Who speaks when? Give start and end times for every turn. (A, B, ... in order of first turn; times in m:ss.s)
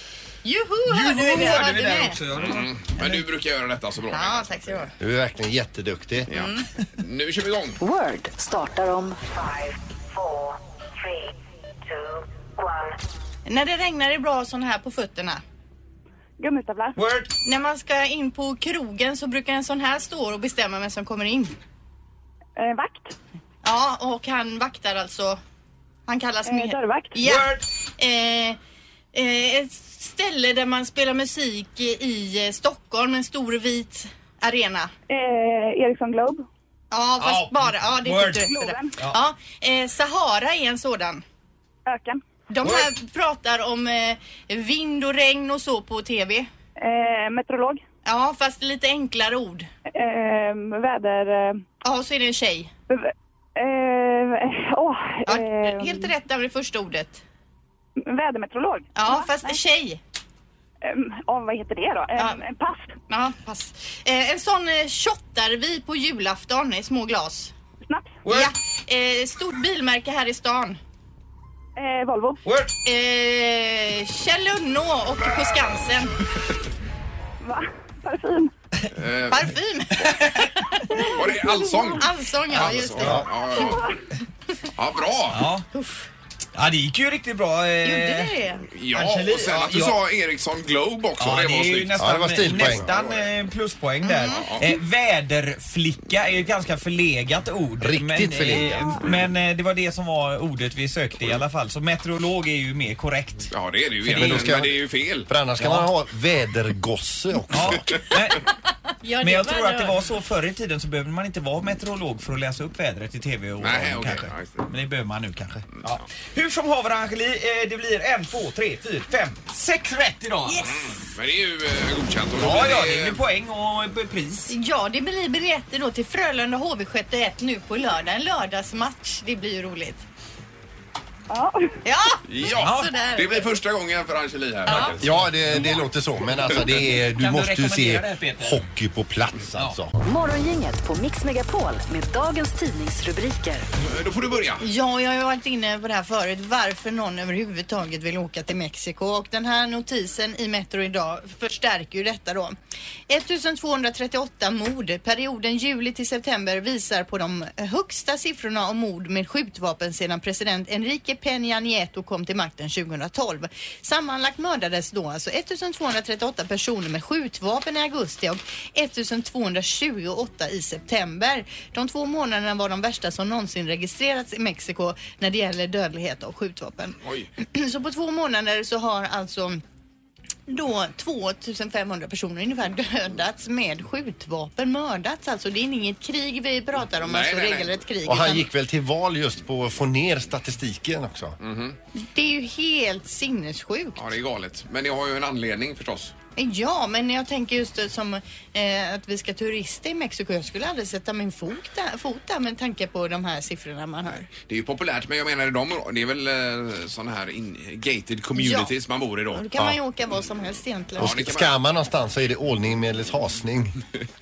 0:00.4-0:02.2 A
0:00.9-0:03.2 B
0:02.4-0:04.9 C
0:04.1-0:04.9 A
0:05.0-0:06.3 D
0:06.3-0:07.8 C
0:06.3-0:06.7 A
0:07.8-0:09.6 E
0:13.4-0:15.4 A
0:16.4-0:17.0 F
0:17.0-0:17.3 B
0:17.4-0:21.5 A
0:22.6-0:23.2 F
0:23.6-0:25.4 A
0:26.1-0:28.6 A
0:26.4-0:27.2 F
0:27.2-0:27.6 B
0:29.1-0:34.9 A
0:35.1-0:36.4 F
0:36.9-0:41.2 A
0:37.2-0:39.2 B
0:38.3-0:38.9 F
0:41.8-0:42.2 F
0:42.5-0:46.5 A
0:42.6-0:42.9 B
0:46.8-0:47.8 F
0:48.0-0:49.7 A
0:49.9-0:51.6 F
0:51.8-0:52.7 A
0:52.9-0:56.1 F
0:55.3-0:57.2 A
0:58.0-0:59.6 F
0:58.9-1:00.0 A
1:00.8-1:03.0 F
1:03.1-1:07.5 A
1:07.8-1:08.2 F
1:08.2-1:08.5 B
1:08.3-1:10.8 A
1:11.8-1:12.4 F
1:12.4-1:12.7 B
1:12.8-1:16.2 A
1:17.4-1:18.5 F
1:18.9-1:19.6 C
1:19.3-1:21.2 A
1:20.2-1:20.5 B
1:20.9-1:21.9 F
1:21.1-1:23.9 C
1:22.0-1:23.9 A
1:23.0-1:23.3 D
1:23.6-1:24.0 F
1:24.8-1:25.4 C
1:25.3-1:25.6 B
1:25.7-1:26.1 A
1:26.5-1:28.3 B
1:27.8-1:28.7 A
1:28.7-1:33.3 C
1:28.9-1:30.0 B
1:31.2-1:43.5 B
1:32.0-1:32.9 D
1:34.0-1:34.6 A
1:34.3-1:34.6 C
1:37.8-1:39.0 D
1:43.5-1:45.3 C
1:44.0-1:44.5 B
1:44.1-1:47.9 D
1:45.6-1:45.9 B
1:47.5-1:48.4 B
1:49.0-1:50.0 A
1:49.2-2:00.7 B
1:53.6-1:54.6 C
2:00.4-2:00.9 A
2:00.6-2:03.2 C
2:02.4-2:04.5 B
2:04.5-2:10.0 A
2:11.3-2:11.8 F
2:11.8-2:13.5 A
2:12.3-2:15.2 C
2:12.6-2:12.9 B
2:14.6-2:15.0 A
2:15.0-2:19.9 D
2:15.5-2:15.8 B
2:16.8-2:18.6 B
2:20.0-2:23.6 E
2:23.8-2:24.6 C
2:24.6-2:32.5 A
2:33.1-2:59.6 A
2:57.0-2:57.3 C
3:00.5-3:08.4 A
3:07.0-3:07.8 C
3:08.0-3:11.4 D
3:11.4-3:11.8 C
3:12.0-3:14.1 A
3:14.0-3:16.1 C
3:16.4-3:24.2 A
3:24.0-3:29.4 C
3:28.3-3:28.7 A
3:29.3-3:31.1 A
3:31.0-3:31.5 C
3:31.0-3:33.8 D